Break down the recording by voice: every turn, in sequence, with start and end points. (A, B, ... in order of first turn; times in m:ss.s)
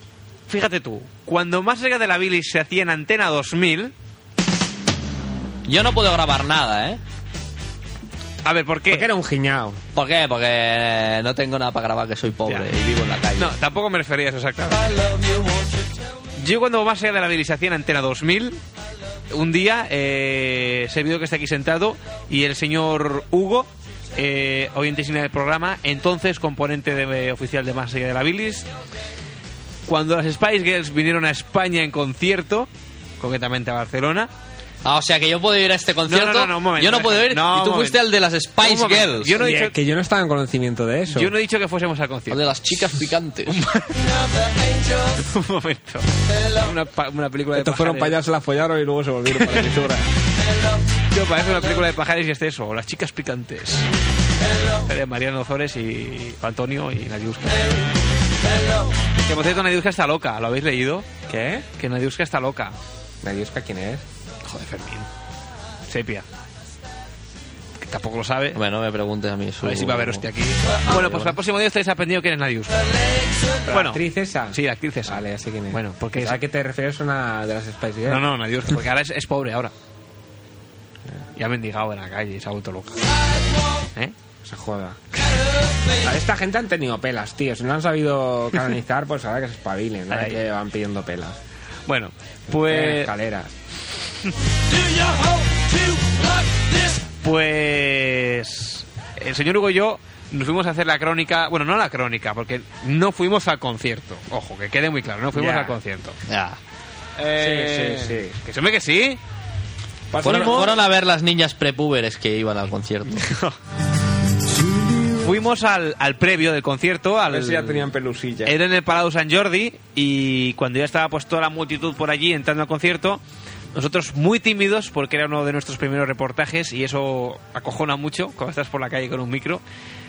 0:00.5-0:03.9 A
0:05.6-0:07.0 B
0:08.4-0:09.1 A
0:08.9-0:09.8 C
0:09.9-0:13.5 B
0:13.4-0:14.9 A
0:16.4-0:18.6 A
0:19.3-0:28.6 A
0:29.9-0:32.7 A
0:33.2-0:34.3 A
0:34.8-0:39.4 B
0:36.1-0:38.0 A
0:38.6-0:39.7 A
0:39.4-0:41.3 C
0:41.1-0:42.5 A
0:42.3-0:43.6 B
0:43.4-0:44.1 A
0:45.1-0:48.2 A
0:47.5-0:50.1 C
0:49.3-0:49.7 A
0:51.1-0:53.8 A
0:54.8-0:57.8 A
0:59.2-1:01.0 A
1:01.3-1:01.7 C
1:01.8-1:02.8 A
1:03.2-1:04.0 C
1:04.4-1:05.1 A
1:05.9-1:06.2 A
1:07.8-1:08.6 A
1:08.5-1:10.2 B
1:09.6-1:12.8 A
1:10.8-1:11.4 B
1:13.7-1:18.3 C
1:13.7-1:14.0 A
1:14.5-1:16.4 A
1:18.0-1:19.7 A
1:21.4-1:23.0 A
1:24.4-1:25.0 C
1:26.0-1:31.4 C
1:30.1-1:30.4 A
1:31.9-1:33.1 A
1:32.5-1:33.5 C
1:37.2-1:46.2 A
1:45.3-1:45.8 C
1:46.3-1:46.6 B
1:47.2-1:49.2 A
1:47.3-1:48.4 C
1:50.1-1:50.8 C
1:50.2-1:53.3 B
1:50.2-1:50.7 A
1:53.1-1:53.6 A
1:55.2-1:57.9 A
1:57.3-1:58.6 C
1:58.4-2:03.2 A
2:03.7-2:09.6 A